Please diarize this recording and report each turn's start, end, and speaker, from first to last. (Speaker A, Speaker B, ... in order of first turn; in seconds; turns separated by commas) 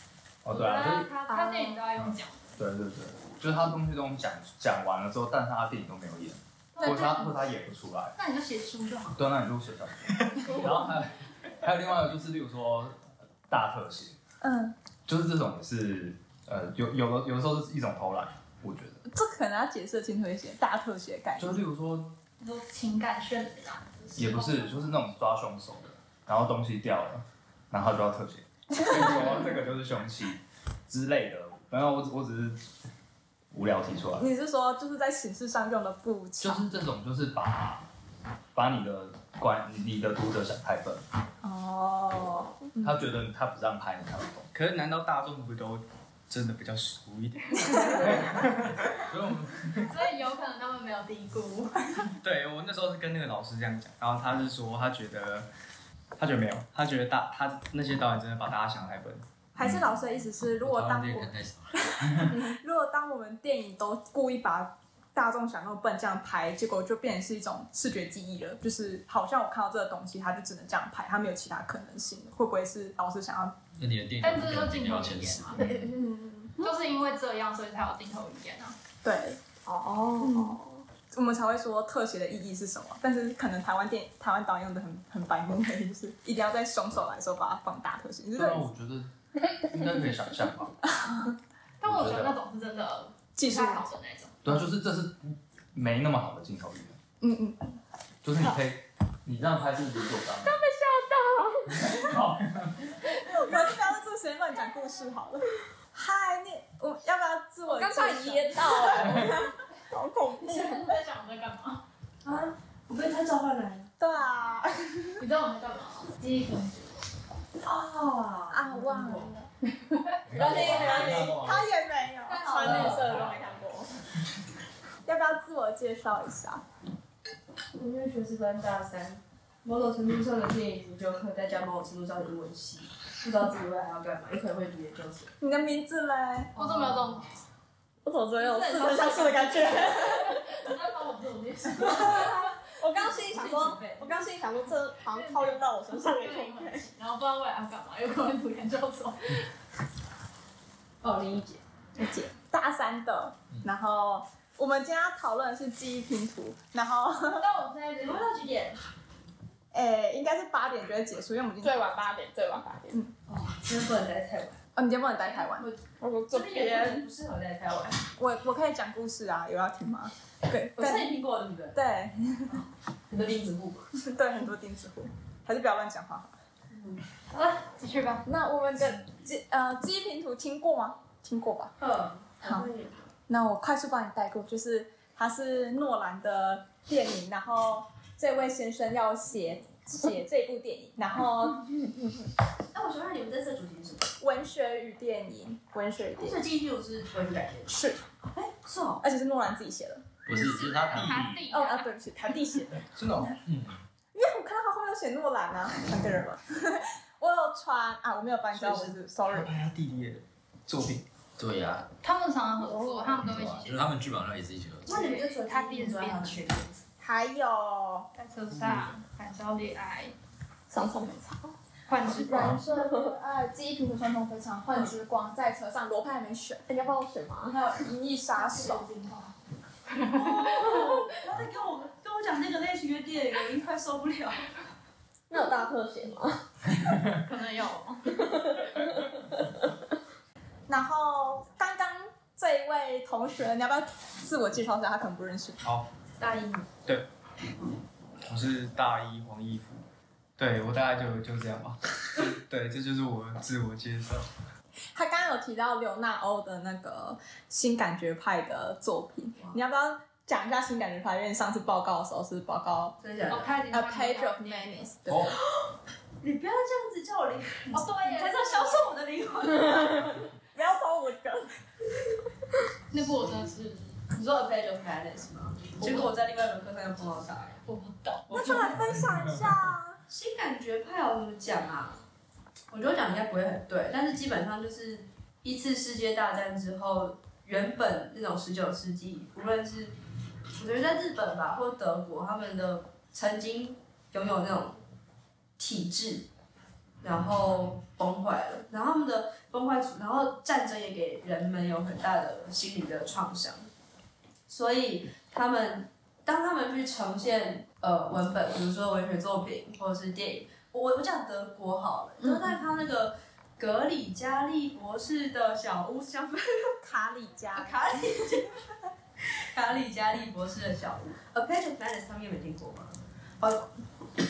Speaker A: 0.4-1.1, Speaker B: 0.5-2.4, Speaker C: 1.3-1.8, Speaker A: 1.9-8.1, Speaker B: 6.7-7.3, Speaker C: 6.8-7.2, Speaker B: 8.2-9.2, Speaker A: 9.1-14.2, Speaker C: 14.4-14.8, Speaker A: 15.1-19.0, Speaker C: 19.1-21.6, Speaker A: 21.4-22.2, Speaker B: 22.4-25.0, Speaker A: 24.1-32.6, Speaker C: 28.8-29.4, Speaker A: 33.5-34.3, Speaker C: 34.2-36.6, Speaker A: 36.4-37.9, Speaker A: 38.5-41.0, Speaker C: 41.4-43.1, Speaker A: 42.8-44.5, Speaker D: 44.5-48.8, Speaker B: 49.8-51.9, Speaker D: 52.2-55.5, Speaker D: 56.1-59.2, Speaker C: 59.5-73.5, Speaker E: 60.5-61.7, Speaker E: 73.8-75.7, Speaker B: 74.2-75.6, Speaker F: 75.6-76.0, Speaker C: 75.7-76.6, Speaker B: 76.6-78.8, Speaker C: 79.0-79.4, Speaker F: 79.7-80.8, Speaker C: 80.2-88.7, Speaker A: 88.3-90.7, Speaker C: 90.9-91.3, Speaker B: 91.8-94.4, Speaker A: 91.8-92.4, Speaker C: 93.4-93.9, Speaker A: 94.4-97.0, Speaker C: 97.2-97.8, Speaker A: 98.2-100.6, Speaker B: 100.4-102.0, Speaker F: 101.2-101.4, Speaker A: 101.7-102.9, Speaker B: 103.1-103.7, Speaker C: 103.3-111.0, Speaker F: 107.7-109.5, Speaker B: 110.4-111.8, Speaker G: 112.2-113.9, Speaker C: 114.0-115.2, Speaker B: 115.2-117.0, Speaker G: 117.6-119.3, Speaker C: 118.5-119.5, Speaker B: 119.9-121.1, Speaker E: 120.3-121.6, Speaker F: 120.3-121.5, Speaker C: 120.3-123.5, Speaker G: 120.4-121.2, Speaker B: 122.3-123.2, Speaker G: 122.3-123.3, Speaker F: 122.4-123.9, Speaker C: 125.0-126.6, Speaker G: 127.7-135.3, Speaker C: 135.4-136.5, Speaker G: 136.6-137.3, Speaker B: 136.6-137.3, Speaker F: 138.0-140.4, Speaker B: 138.4-142.6, Speaker C: 138.8-140.1, Speaker F: 142.8-146.8, Speaker G: 142.9-144.1, Speaker B: 145.0-149.5, Speaker G: 151.0-151.6, Speaker C: 152.0-157.4, Speaker B: 157.3-158.5, Speaker G: 158.0-158.8, Speaker C: 159.7-162.1, Speaker F: 161.6-163.0, Speaker G: 163.3-164.6, Speaker C: 164.8-165.7, Speaker G: 165.3-168.0, Speaker F: 166.0-167.0, Speaker C: 168.2-171.1, Speaker G: 170.8-171.8, Speaker C: 171.7-172.6, Speaker G: 173.1-173.9, Speaker C: 174.0-176.3, Speaker G: 176.7-177.0, Speaker B: 177.3-178.2, Speaker C: 178.2-181.7, Speaker G: 181.8-183.1, Speaker C: 182.4-182.7, Speaker C: 183.3-191.8, Speaker G: 192.7-194.1, Speaker C: 194.2-196.4, Speaker G: 196.2-197.8, Speaker C: 197.7-198.0, Speaker G: 198.3-199.0, Speaker C: 199.0-200.1, Speaker E: 200.2-201.3, Speaker B: 200.3-201.9, Speaker A: 200.9-201.4, Speaker C: 201.5-203.4, Speaker D: 202.9-203.3, Speaker E: 203.4-203.8, Speaker C: 204.1-209.5, Speaker D: 208.5-211.0, Speaker E: 211.4-211.9, Speaker B: 212.0-213.9, Speaker F: 212.6-213.2, Speaker E: 213.2-214.9, Speaker G: 214.8-216.8, Speaker B: 214.9-216.5, Speaker F: 217.0-218.1, Speaker B: 218.2-220.1, Speaker D: 218.6-218.9, Speaker F: 220.7-221.6, Speaker B: 221.9-222.6, Speaker C: 222.2-226.6, Speaker F: 222.4-223.1, Speaker F: 226.7-227.6, Speaker C: 227.5-228.9, Speaker B: 228.3-229.3, Speaker B: 229.9-231.1, Speaker G: 230.1-234.5, Speaker F: 235.3-236.4, Speaker B: 237.0-238.3, Speaker F: 238.1-239.7, Speaker C: 240.7-245.6, Speaker G: 246.2-246.7, Speaker D: 248.2-249.8, Speaker D: 250.4-254.2, Speaker C: 254.9-263.0, Speaker G: 263.0-263.6, Speaker B: 263.3-264.9, Speaker C: 263.7-265.3, Speaker G: 266.2-270.2, Speaker B: 267.7-269.0, Speaker C: 270.5-271.5, Speaker B: 272.9-274.0, Speaker G: 274.1-277.6, Speaker B: 275.8-276.1, Speaker B: 277.6-278.9, Speaker C: 278.3-280.0, Speaker G: 280.1-282.0, Speaker G: 282.7-289.9, Speaker G: 290.6-294.8, Speaker G: 295.6-296.3, Speaker G: 297.0-303.7, Speaker G: 304.5-316.8, Speaker C: 312.2-312.6, Speaker C: 316.8-318.4, Speaker G: 317.5-318.6, Speaker G: 319.5-323.7